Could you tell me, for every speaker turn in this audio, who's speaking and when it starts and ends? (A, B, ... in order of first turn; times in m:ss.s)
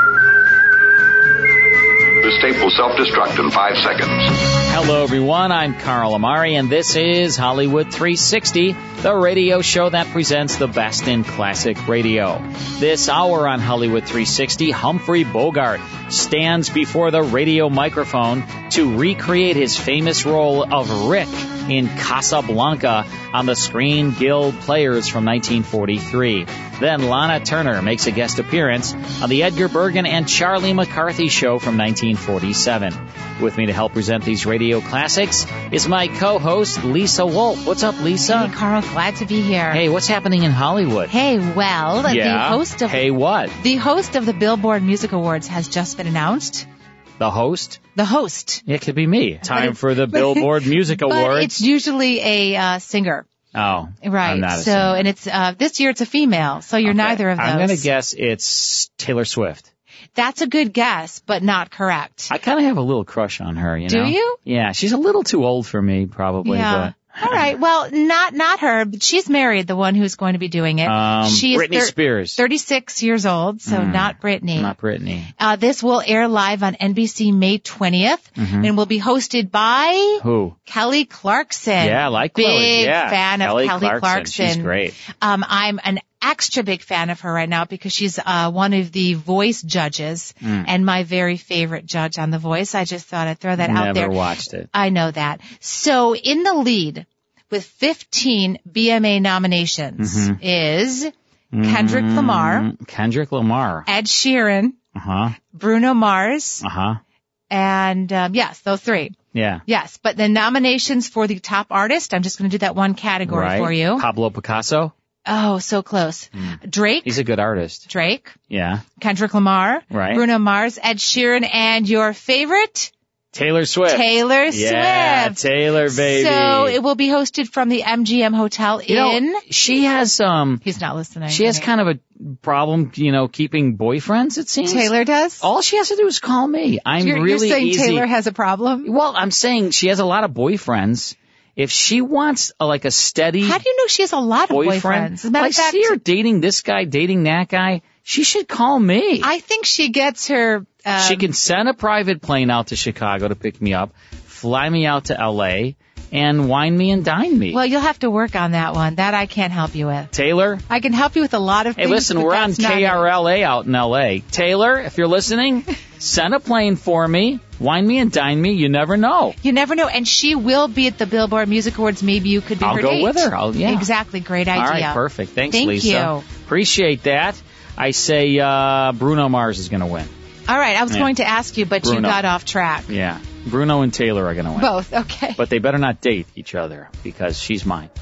0:02.2-0:04.4 A
0:04.7-0:38.5 B
0:38.2-0:39.8 C
0:39.7-0:41.1 B
0:41.1-0:43.0 C
0:42.1-0:43.6 B
0:43.6-0:46.7 C
0:47.2-0:47.8 B
0:47.9-0:48.6 C
0:48.6-0:51.6 B
0:49.4-0:53.2 C
0:53.5-0:55.0 B
0:54.0-0:57.9 C
0:56.8-0:59.7 B
1:00.1-1:02.3 C
1:02.3-1:07.4 B
1:03.9-1:04.4 C
1:06.4-1:14.7 C
1:10.8-1:12.4 B
1:13.7-1:15.3 B
1:15.4-1:34.2 C
1:18.4-1:18.7 B
1:20.2-1:20.6 B
1:21.8-1:25.0 B
1:33.6-1:34.7 B
1:34.7-1:42.7 C
1:40.0-1:40.4 B
1:41.5-1:43.8 B
1:43.8-1:44.8 C
1:45.0-1:45.4 B
1:45.5-1:46.6 C
1:46.6-1:47.0 B
1:47.5-1:54.1 C
1:49.3-1:49.6 B
1:53.3-1:54.9 B
1:55.2-1:57.2 C
1:56.4-1:57.9 B
1:57.9-1:58.4 C
1:58.5-1:58.8 B
1:59.0-2:02.9 C
1:59.9-2:00.2 B
2:03.3-2:06.8 B
2:03.9-2:09.4 C
2:08.9-2:10.6 B
2:10.6-2:11.7 C
2:11.3-2:18.1 B
2:14.6-2:15.4 C
2:17.0-2:18.9 C
2:18.8-2:23.6 B
2:23.4-2:26.0 C
2:24.5-2:29.3 B
2:29.2-2:31.3 C
2:31.0-2:37.6 B
2:37.5-2:40.1 C
2:40.1-2:40.6 B
2:40.7-2:43.1 C
2:41.8-2:49.4 B
2:49.4-2:56.2 C
2:52.6-2:53.9 B
2:54.5-3:00.1 B
3:00.5-3:02.9 C
3:01.8-3:02.2 B
3:02.9-3:04.7 B
3:04.6-3:05.4 C
3:05.4-3:07.9 B